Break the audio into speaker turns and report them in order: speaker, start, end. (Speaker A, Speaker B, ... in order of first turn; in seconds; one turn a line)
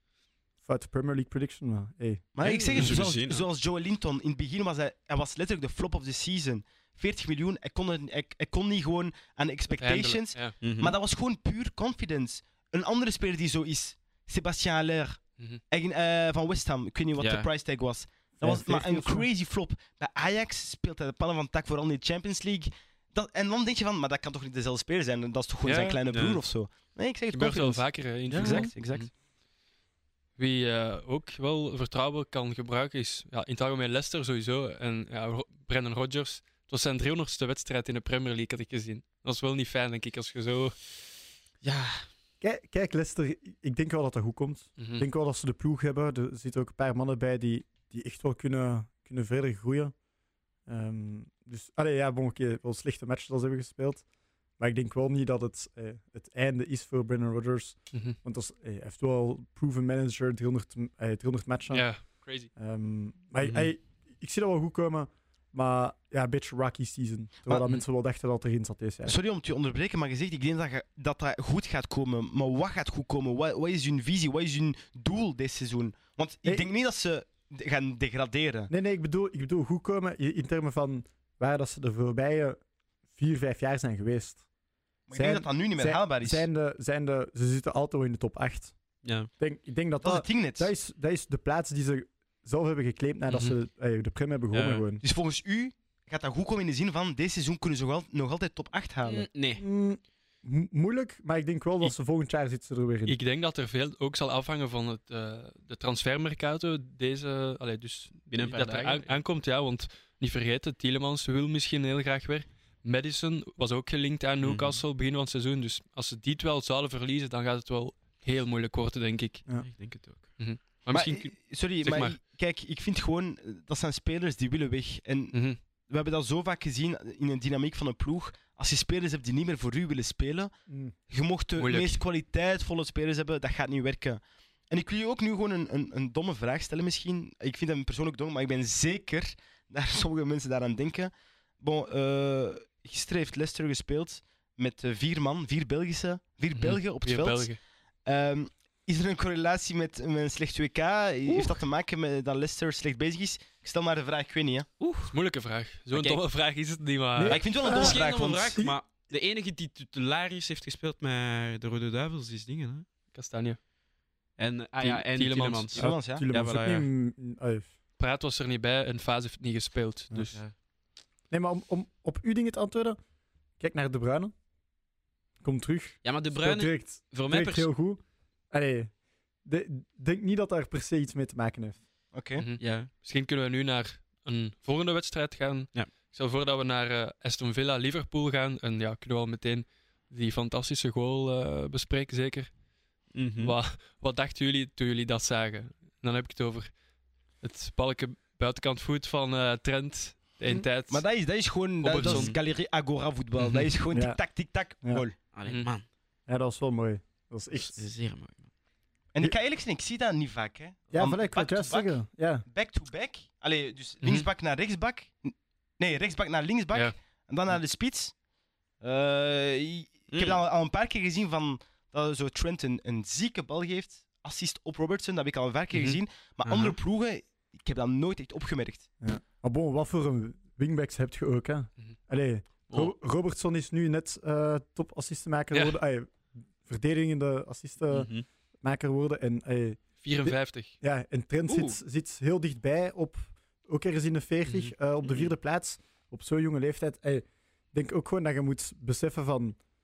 Speaker A: 0.6-2.2
Speaker B: 2.3-29.1
Speaker C: 2.4-3.5
Speaker D: 9.8-10.5
Speaker C: 10.6-10.9
Speaker C: 17.2-17.5
Speaker A: 18.4-19.2
Speaker D: 25.6-26.0
Speaker C: 26.1-26.4
Speaker D: 27.3-29.1
Speaker C: 28.3-28.6
Speaker D: 30.4-40.8
Speaker C: 41.6-42.0
Speaker A: 42.4-49.9
Speaker D: 44.8-45.0
Speaker A: 50.7-54.0
Speaker A: 54.6-61.9
Speaker D: 61.7-62.5
Speaker A: 62.5-69.2
Speaker C: 63.4-63.7
Speaker B: 69.0-78.7
Speaker A: 78.7-82.6
Speaker A: 83.1-84.4
Speaker B: 85.1-86.5
Speaker A: 85.1-88.7
Speaker C: 89.0-89.3
Speaker A: 89.4-95.0
Speaker B: 90.0-90.7
Speaker C: 94.5-94.8
Speaker B: 95.0-99.2
Speaker C: 99.0-99.6
Speaker A: 99.6-103.2
Speaker D: 103.1-119.4
Speaker C: 108.3-109.2
Speaker C: 114.4-114.8
Speaker C: 119.6-120.3
Speaker D: 120.4-122.2
Speaker B: 120.9-130.5
Speaker D: 125.3-125.6
Speaker A: 130.7-130.9
Speaker B: 131.1-147.5
Speaker D: 131.6-132.0
Speaker D: 146.5-147.6
Speaker B: 148.0-154.7
Speaker C: 151.3-151.6
Speaker C: 154.8-155.1
Speaker D: 155.1-157.4
Speaker C: 155.9-156.2
Speaker A: 157.2-158.0
Speaker B: 157.3-158.6
Speaker C: 157.6-162.8
Speaker D: 163.1-163.6
Speaker C: 164.4-166.9
Speaker D: 164.8-165.8
Speaker B: 165.8-166.2
Speaker A: 165.9-167.7
Speaker D: 168.0-170.4
Speaker A: 171.3-173.0
Speaker A: 173.6-174.3
Speaker A: 175.4-178.9
Speaker C: 176.0-177.7
Speaker A: 179.4-181.8
Speaker B: 182.1-182.4
Speaker D: 182.4-192.5
Speaker C: 182.6-182.9
Speaker C: 193.1-193.5
Speaker D: 193.4-196.7
Speaker D: 197.4-201.0
Speaker B: 200.9-205.2
Speaker D: 201.8-202.3
Speaker C: 202.0-202.4
Speaker A: 203.9-204.2
Speaker C: 205.3-205.8
Speaker A: 206.3-207.8
Speaker C: 207.5-208.5
Speaker B: 209.1-211.9
Speaker A: 210.9-212.4
Speaker B: 212.5-218.2
Speaker D: 214.0-214.3
Speaker B: 218.8-228.9
Speaker C: 220.1-220.4
Speaker D: 225.7-226.0
Speaker C: 226.4-226.8
Speaker A: 229.0-249.6
Speaker C: 237.9-238.2
Speaker D: 240.0-240.7
Speaker C: 241.5-241.8
Speaker D: 244.5-244.7